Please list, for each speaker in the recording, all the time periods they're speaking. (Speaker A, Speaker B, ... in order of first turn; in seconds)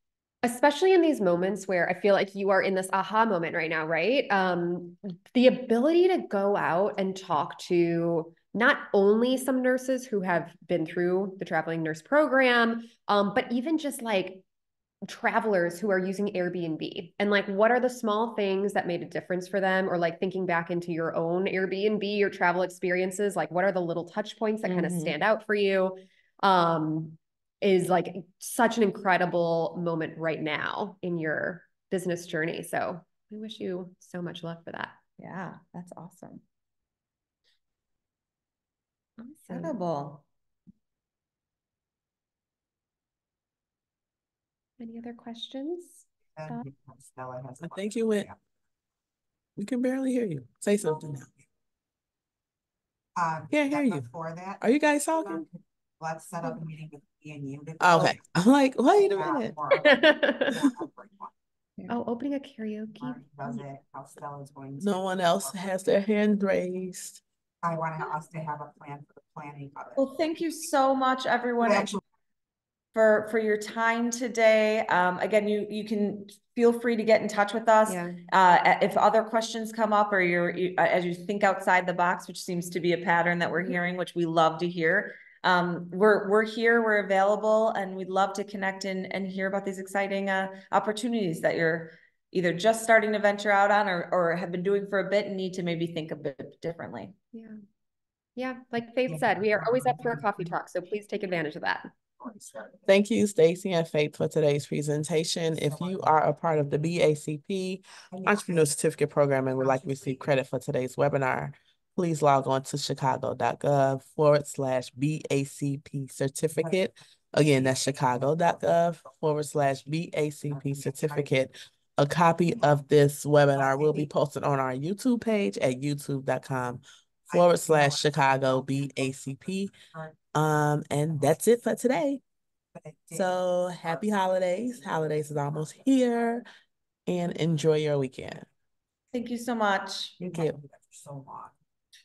Speaker A: 0.4-14.4, 15.0-35.0, 39.2-39.8, 44.8-46.7, 59.7-60.7, 61.9-63.6, 77.8-78.2, 97.3-97.6, 98.3-101.9
Speaker B: 24.6-25.2, 35.2-36.4, 39.5-40.2, 70.0-71.9, 72.9-97.1, 139.1-140.2
Speaker C: 46.4-48.4, 53.1-54.6, 55.2-58.2, 58.9-61.3, 63.0-65.7, 67.6-70.1, 71.7-72.0, 99.1-100.3, 102.2-102.9, 105.6-106.0, 108.1-108.4, 109.7-110.1, 117.3-118.8, 120.5-121.3, 123.6-124.0, 127.3-128.5, 132.8-133.3, 140.2-141.5
Speaker D: 47.6-48.3, 49.6-51.3, 53.5-54.1, 54.6-55.4, 57.8-59.5, 64.8-67.2, 102.9-129.7, 130.3-132.2, 133.1-136.4, 137.1-138.4, 140.2-140.6